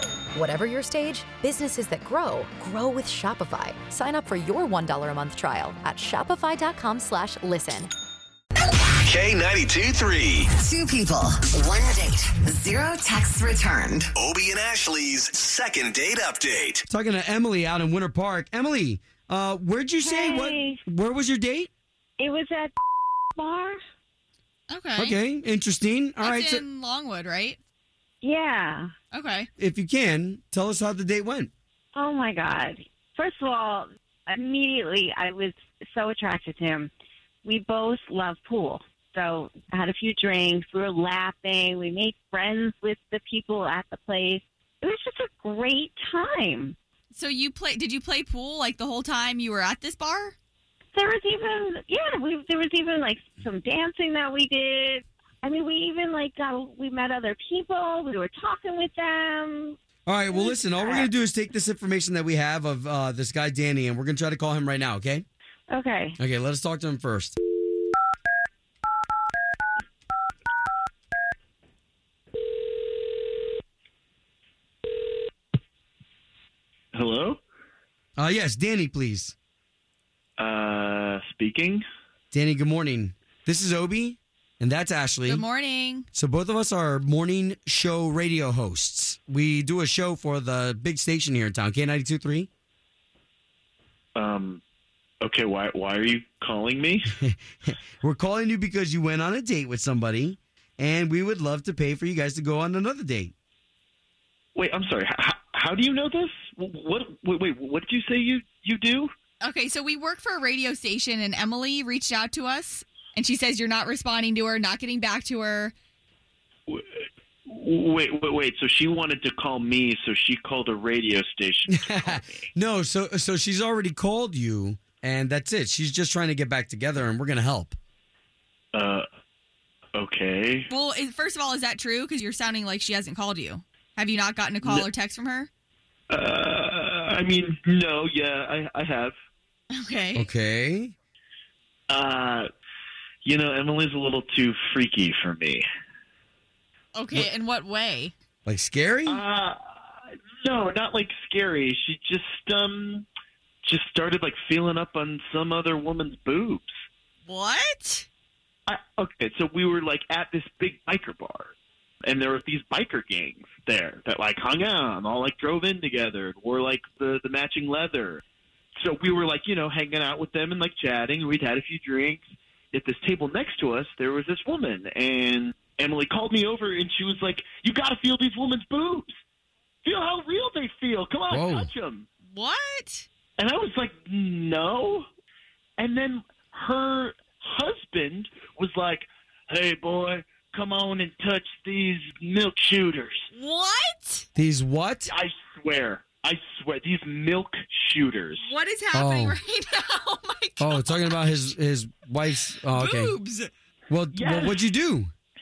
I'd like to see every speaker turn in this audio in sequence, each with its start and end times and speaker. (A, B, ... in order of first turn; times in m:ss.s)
0:00.3-0:07.9 A
0:09.0-0:10.5 B
0:10.5-0:14.1 C
0:14.1-0:16.8 B
0:16.9-0:21.7 D
0:20.0-0:20.8 E
0:22.2-0:22.8 E
0:23.3-0:23.8 E
0:24.7-0:25.2 F
0:25.0-0:26.6 D
0:26.2-0:27.6 F
0:28.2-0:28.9 E
0:29.1-0:29.5 F
0:29.6-0:31.5 D
0:31.9-0:36.9 E
0:37.4-0:46.8 E
0:47.1-0:50.4 F
0:50.9-0:59.8 E
1:00.0-1:05.2 D
1:00.3-1:01.1 E
1:05.7-1:06.2 E
1:06.2-1:07.4 D
1:16.9-1:17.4 G
1:18.2-1:19.3 D
1:20.4-1:21.8 G
1:22.3-1:25.4 D
1:25.2-1:26.0 F
1:26.1-1:32.5 D
1:34.1-1:34.6 G
1:35.2-1:37.1 G
1:37.2-1:43.3 D
1:44.6-1:49.1 G
1:49.4-1:55.7 F
1:56.7-2:02.4 G
2:01.7-2:07.8 D
2:08.7-2:09.0 G
2:09.9-2:10.7 G
2:10.7-2:15.5 F
2:14.6-2:14.9 G
2:16.1-2:19.1 G
2:19.7-2:20.3 F
2:20.1-2:20.9 D
2:21.9-2:22.5 G
2:23.2-2:25.6 G
2:26.9-2:28.1 F
2:28.4-2:29.2 D
2:29.1-2:29.6 G
2:30.4-2:33.1 G
2:33.6-2:36.7 G
2:37.2-2:38.1 F
2:38.7-2:41.5 G
2:42.0-2:48.2 G
2:48.8-2:59.1 G
2:59.8-3:02.1 G
3:01.3-3:01.7 D
3:02.3-3:03.1 F
3:03.4-3:05.0 G
3:05.8-3:13.3 G
3:13.3-3:14.2 F
3:14.3-3:15.1 D
3:15.0-3:18.5 G
3:18.4-3:21.4 F
3:18.9-3:19.4 D
3:20.6-3:23.2 D
3:22.7-3:23.5 F
3:23.9-3:25.1 D
3:24.1-3:24.6 G